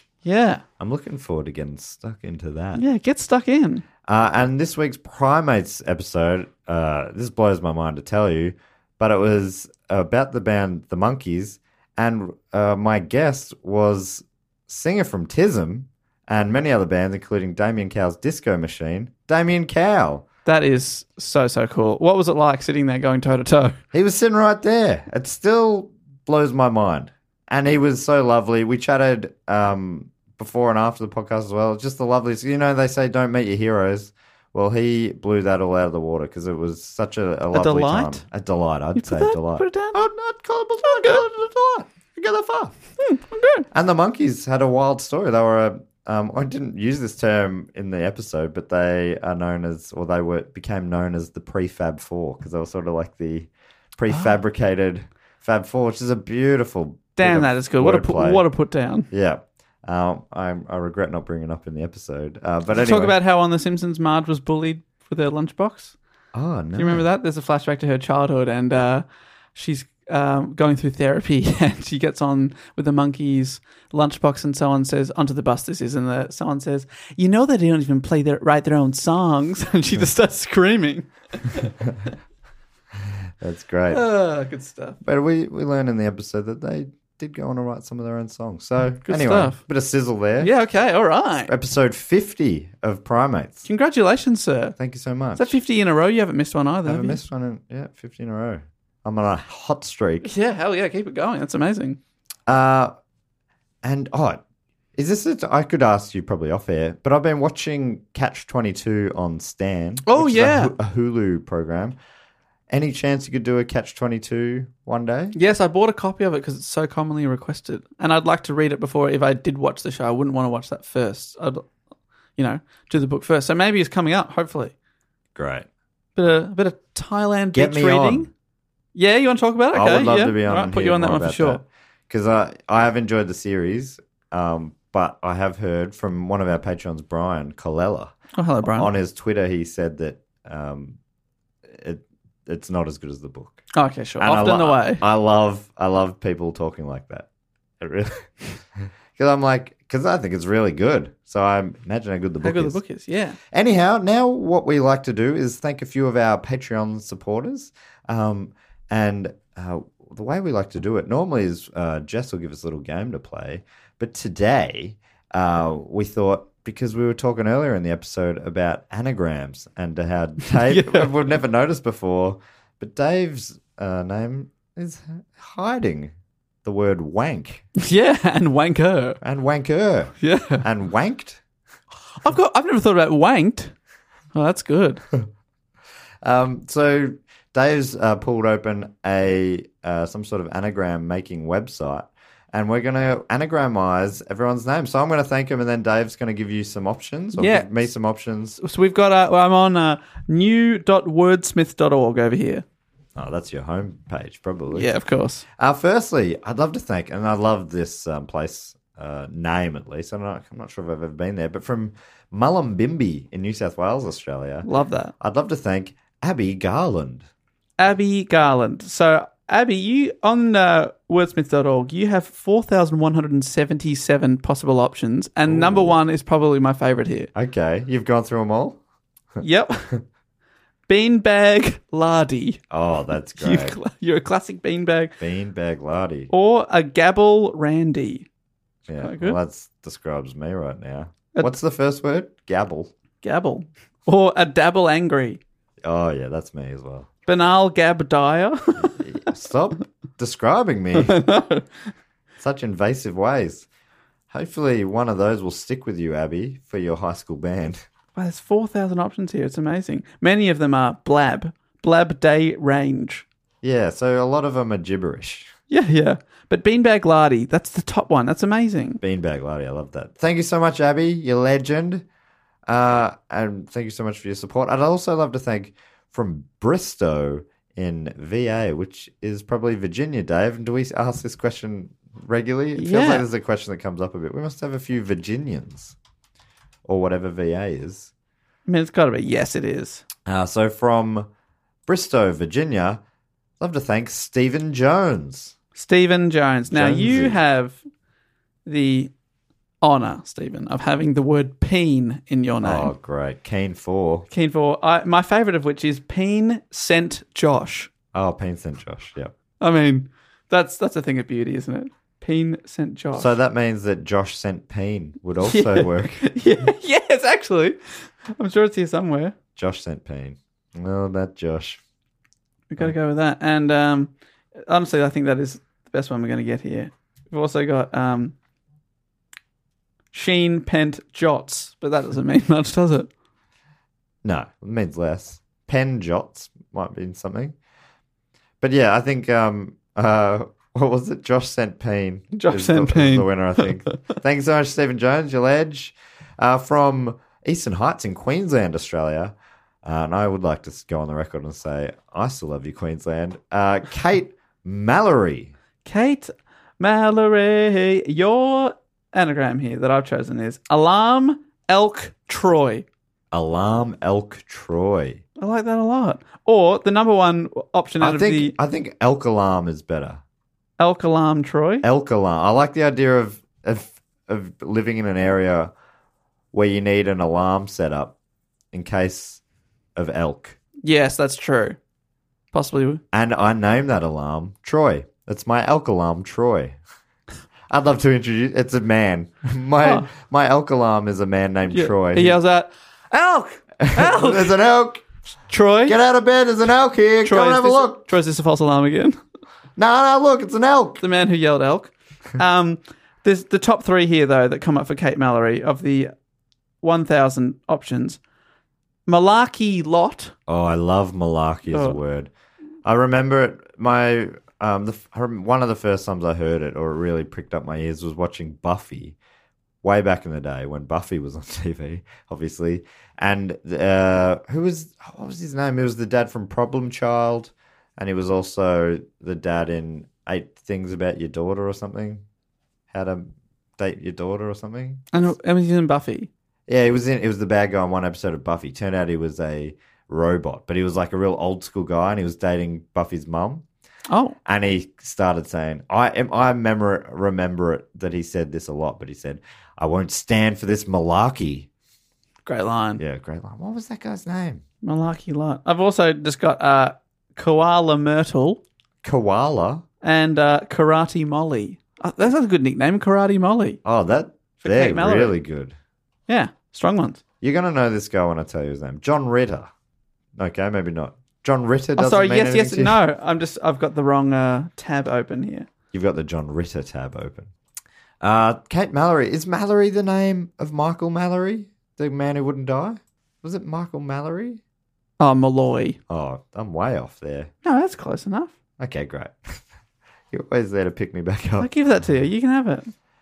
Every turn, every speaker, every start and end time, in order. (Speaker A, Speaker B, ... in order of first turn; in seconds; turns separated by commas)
Speaker A: 0.2-0.6, Speaker B: 0.8-2.8, Speaker A: 2.7-3.8, Speaker B: 4.0-20.2, Speaker A: 20.4-23.8, Speaker B: 23.9-42.8, Speaker A: 37.5-38.2, Speaker A: 39.0-40.0, Speaker A: 40.9-41.2, Speaker A: 43.0-43.6, Speaker B: 43.7-58.4, Speaker A: 57.1-59.1, Speaker B: 59.1-63.1, Speaker A: 62.7-66.0, Speaker B: 66.3-67.1, Speaker A: 66.8-81.7, Speaker B: 83.4-84.0, Speaker A: 83.9-85.0, Speaker B: 85.0-90.5, Speaker A: 89.0-89.6, Speaker A: 90.4-91.5, Speaker B: 91.5-93.7, Speaker A: 93.7-94.7, Speaker B: 94.8-95.6, Speaker A: 95.3-97.2, Speaker B: 96.8-100.3, Speaker A: 100.2-102.0, Speaker B: 102.5-102.9, Speaker B: 103.8-104.4, Speaker B: 105.0-112.0, Speaker A: 110.0-110.7, Speaker B: 112.7-115.3, Speaker A: 115.3-121.7, Speaker A: 122.4-124.7, Speaker B: 125.3-125.7, Speaker A: 126.2-128.3, Speaker B: 127.5-128.3, Speaker A: 128.9-131.6, Speaker B: 129.7-138.2, Speaker A: 138.4-138.9, Speaker B: 138.7-141.0, Speaker B: 141.7-143.6, Speaker A: 143.7-145.0, Speaker B: 144.2-147.3, Speaker B: 147.8-148.3, Speaker B: 149.2-152.8, Speaker A: 152.4-153.4, Speaker B: 153.5-176.1, Speaker A: 170.4-171.1, Speaker B: 176.6-177.7, Speaker A: 177.8-179.2, Speaker B: 179.2-181.4, Speaker A: 180.2-180.6, Speaker A: 182.2-183.7, Speaker A: 184.3-185.0, Speaker B: 186.2-198.6, Speaker A: 197.3-197.7, Speaker A: 198.6-202.6, Speaker B: 203.2-204.9, Speaker A: 204.7-205.4, Speaker B: 205.6-214.7, Speaker A: 214.6-215.1, Speaker B: 215.2-217.3, Speaker A: 217.8-227.3, Speaker B: 225.4-226.0, Speaker B: 227.3-228.8, Speaker A: 229.4-229.9, Speaker A: 230.9-232.6, Speaker B: 232.7-233.8, Speaker A: 233.4-235.1, Speaker B: 235.2-236.3, Speaker A: 236.3-238.3, Speaker B: 238.9-242.9, Speaker A: 239.0-239.4, Speaker A: 243.2-245.4, Speaker B: 245.8-247.1, Speaker A: 247.2-248.9, Speaker B: 248.9-251.2, Speaker A: 251.0-251.7, Speaker B: 252.4-253.7, Speaker B: 254.3-257.8, Speaker A: 258.1-263.2, Speaker B: 263.6-265.5, Speaker A: 265.7-269.0, Speaker B: 269.0-272.1, Speaker B: 272.7-285.9, Speaker A: 282.8-283.2, Speaker B: 286.8-288.1, Speaker A: 288.6-290.0, Speaker B: 290.3-291.3, Speaker B: 291.9-293.0, Speaker B: 293.6-295.6, Speaker A: 295.7-297.8, Speaker B: 296.7-297.4, Speaker A: 298.6-299.1, Speaker A: 299.8-302.9, Speaker B: 302.6-304.3, Speaker A: 304.3-307.9, Speaker B: 308.1-309.4, Speaker A: 309.6-313.3, Speaker B: 313.1-316.3, Speaker A: 315.5-317.8, Speaker A: 318.3-319.3, Speaker B: 319.6-321.8, Speaker A: 322.7-324.1, Speaker A: 324.6-328.3, Speaker A: 330.1-333.1, Speaker B: 334.2-337.5, Speaker B: 338.6-355.5, Speaker A: 342.4-344.2, Speaker A: 355.8-362.9, Speaker B: 363.3-365.2, Speaker A: 365.4-368.5, Speaker B: 368.0-370.2, Speaker A: 370.8-371.8, Speaker B: 371.8-375.7, Speaker B: 376.5-378.1, Speaker B: 378.7-379.4, Speaker B: 379.9-380.6, Speaker A: 380.8-381.8, Speaker A: 382.5-383.0, Speaker B: 383.1-386.8, Speaker B: 387.7-392.4, Speaker A: 389.8-390.1, Speaker A: 391.7-394.5, Speaker B: 393.8-395.0, Speaker A: 395.5-396.0, Speaker B: 395.9-398.1, Speaker A: 397.2-399.2, Speaker B: 399.8-401.0, Speaker A: 401.0-406.1, Speaker A: 406.8-408.2, Speaker A: 409.1-410.3, Speaker B: 410.5-412.3, Speaker A: 411.7-411.9, Speaker B: 412.8-419.1, Speaker B: 419.8-432.2, Speaker B: 432.9-435.0, Speaker A: 435.1-436.3, Speaker B: 436.7-443.6, Speaker A: 444.1-444.4, Speaker B: 444.4-451.7, Speaker A: 452.4-453.0, Speaker B: 453.0-454.6, Speaker A: 454.8-458.6, Speaker B: 459.0-459.8, Speaker A: 460.0-463.8, Speaker B: 463.8-465.8, Speaker A: 464.6-465.3, Speaker A: 466.3-467.2, Speaker B: 467.4-469.7, Speaker B: 470.3-473.0, Speaker A: 472.0-475.7, Speaker B: 475.9-477.5, Speaker B: 478.2-484.6, Speaker A: 485.2-486.0, Speaker B: 486.1-487.5, Speaker A: 487.6-488.5, Speaker B: 488.8-489.6, Speaker B: 490.3-491.7, Speaker A: 491.6-492.9